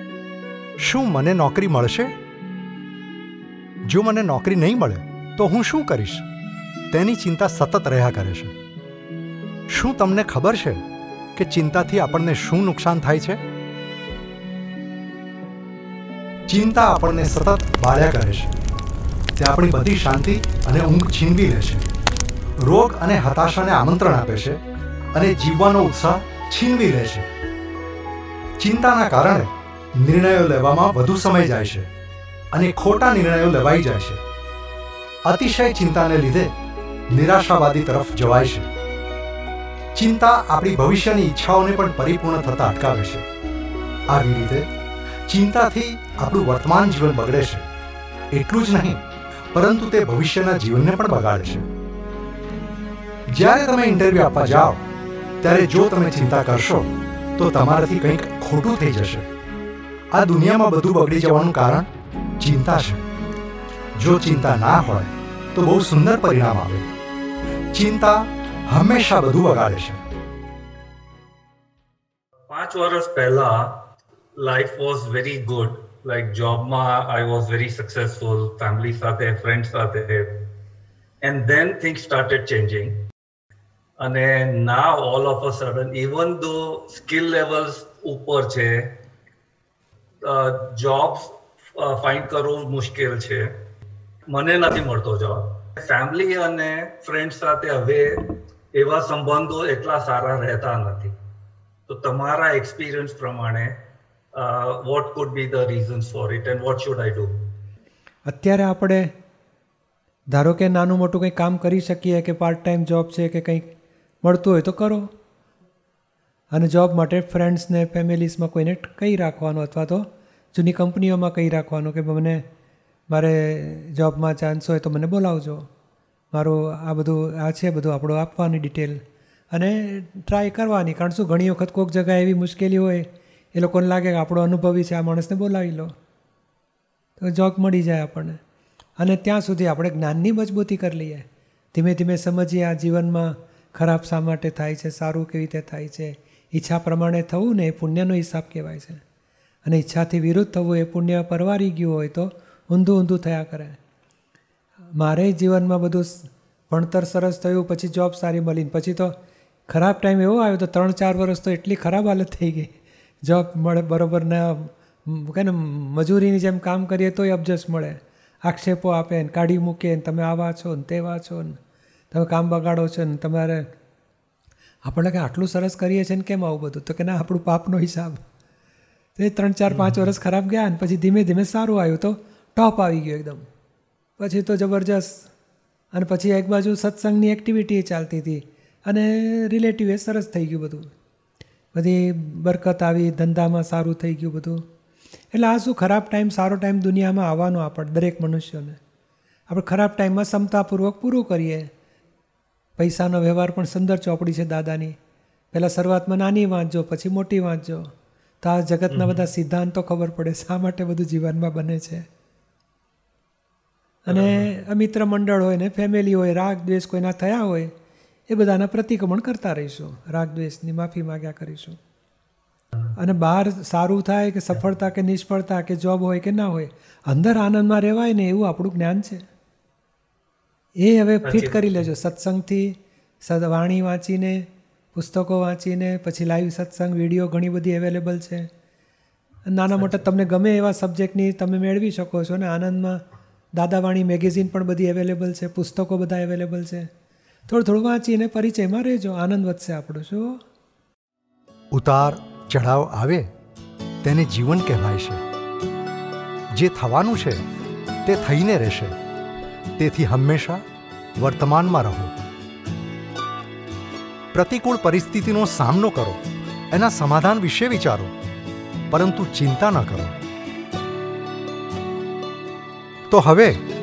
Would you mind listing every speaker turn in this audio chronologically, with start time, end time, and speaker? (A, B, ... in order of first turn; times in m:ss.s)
0:00.8-0:02.1 A
0:03.8-0:06.2 A
0:06.9-0:08.5 A
0:09.7-0:10.8 A
0:11.4-0:13.4 A
0:16.5-0:18.5 A
0:19.4-0:21.9 A
0:22.6-0:24.6 A
0:25.1-0:27.3 A
0:28.6-0:31.9 A
0:32.5-0:34.2 A
0:35.2-0:36.5 A
0:37.1-0:38.7 A
0:39.9-0:43.2 A
0:44.1-0:44.7 A
0:45.3-0:47.6 A
0:48.3-0:49.0 A
0:49.5-0:51.7 A
0:53.3-0:54.8 A
0:55.4-0:56.9 A
0:57.4-0:59.3 A
1:00.1-1:01.9 A
1:02.4-1:03.0 A
1:04.0-1:06.9 A
1:07.7-1:10.0 A
1:12.5-1:13.7 B
1:14.4-1:20.3 B
1:21.2-1:23.0 B
1:24.0-1:28.9 B
1:30.2-1:33.5 B
1:34.3-1:41.1 B
1:41.9-1:43.7 B
1:44.3-1:47.3 B
1:48.2-1:49.1 C
1:50.3-1:53.7 C
1:54.2-1:55.1 C
1:56.5-2:02.4 C
2:03.1-2:05.7 C
2:06.3-2:15.9 C
2:17.2-2:18.4 C
2:19.0-2:29.0 C
2:29.6-2:33.8 C
2:35.0-2:39.1 C
2:39.7-2:42.7 C
2:43.2-2:51.6 C
2:52.1-2:53.6 C
2:54.8-2:58.2 C
2:59.2-3:03.4 C
2:59.7-3:00.0 B
3:04.2-3:05.3 C
3:05.9-3:10.9 C
3:11.7-3:14.6 C
3:15.3-3:18.8 C
3:19.5-3:21.7 C
3:22.8-3:24.9 C
3:25.5-3:27.9 C
3:28.4-3:32.0 C
3:28.9-3:29.2 B
3:34.0-3:37.7 C
3:34.1-3:34.5 B
3:38.3-3:41.8 C
3:42.9-3:49.2 C
3:50.8-3:58.5 C
3:51.2-3:51.6 B
3:59.5-4:03.0 C
3:59.8-4:00.0 B
4:03.6-4:06.9 C
4:07.5-4:10.4 C
4:11.7-4:13.3 A
4:14.0-4:15.2 A
4:16.5-4:17.4 A
4:18.0-4:19.0 A
4:19.8-4:20.6 A
4:21.2-4:22.1 A
4:24.3-4:26.2 A
4:26.7-4:28.1 A
4:28.9-4:30.1 A
4:33.1-4:33.6 A